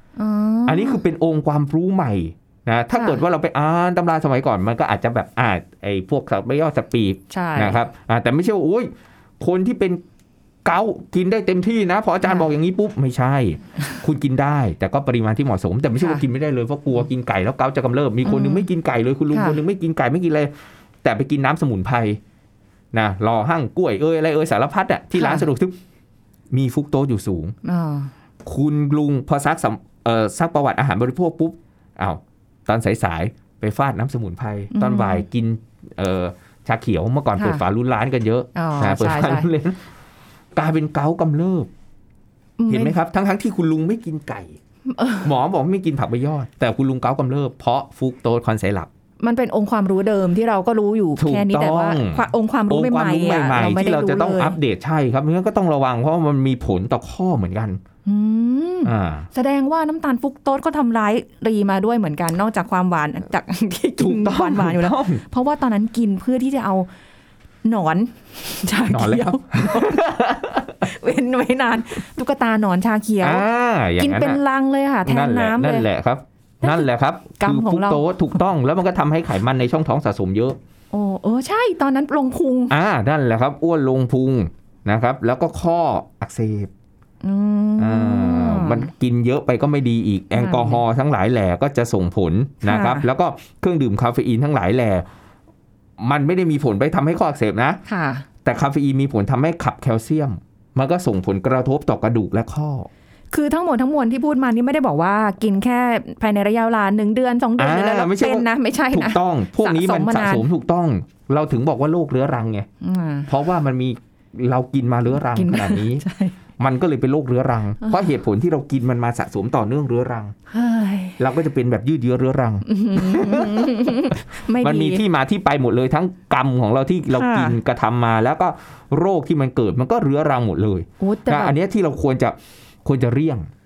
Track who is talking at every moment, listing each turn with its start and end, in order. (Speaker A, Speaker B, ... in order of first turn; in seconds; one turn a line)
Speaker A: 0.2-1.0
Speaker B: 0.7-10.0
Speaker A: 2.9-3.2
Speaker A: 7.3-7.8
Speaker B: 10.7-22.2
Speaker A: 18.2-18.7
Speaker A: 19.3-19.6
Speaker B: 22.9-25.8
Speaker A: 25.1-25.5
Speaker B: 26.5-27.6
Speaker A: 27.6-28.1
Speaker B: 28.4-39.8
Speaker A: 34.7-35.2
Speaker A: 37.4-37.6
Speaker A: 38.5-39.5
Speaker B: 40.5-41.7
Speaker A: 42.6-43.0
Speaker B: 42.7-44.6
Speaker A: 44.9-45.3
Speaker B: 45.2-48.9
Speaker A: 49.2-54.6
Speaker B: 51.2-57.8
Speaker A: 58.0-66.9
Speaker B: 58.9-59.3
Speaker B: 64.0-65.2
Speaker A: 67.6-70.1
Speaker B: 68.9-70.8
Speaker A: 70.8-73.5
Speaker B: 73.2-74.4
Speaker A: 74.0-75.9
Speaker B: 75.0-80.6
Speaker A: 77.4-78.1
Speaker A: 80.9-82.8
Speaker B: 82.7-86.7
Speaker A: 87.2-88.9
Speaker B: 87.8-95.1
Speaker A: 90.4-90.8
Speaker A: 92.6-93.1
Speaker B: 96.0-97.8
Speaker A: 97.9-98.3
Speaker B: 98.4-102.9
Speaker A: 103.3-110.5
Speaker B: 107.6-112.7
Speaker A: 112.8-113.3
Speaker B: 113.3-116.0
Speaker A: 115.1-116.3
Speaker B: 116.6-120.3
Speaker A: 120.5-121.2
Speaker B: 121.2-133.5
Speaker A: 122.7-125.0
Speaker A: 127.1-127.6
Speaker A: 131.0-131.6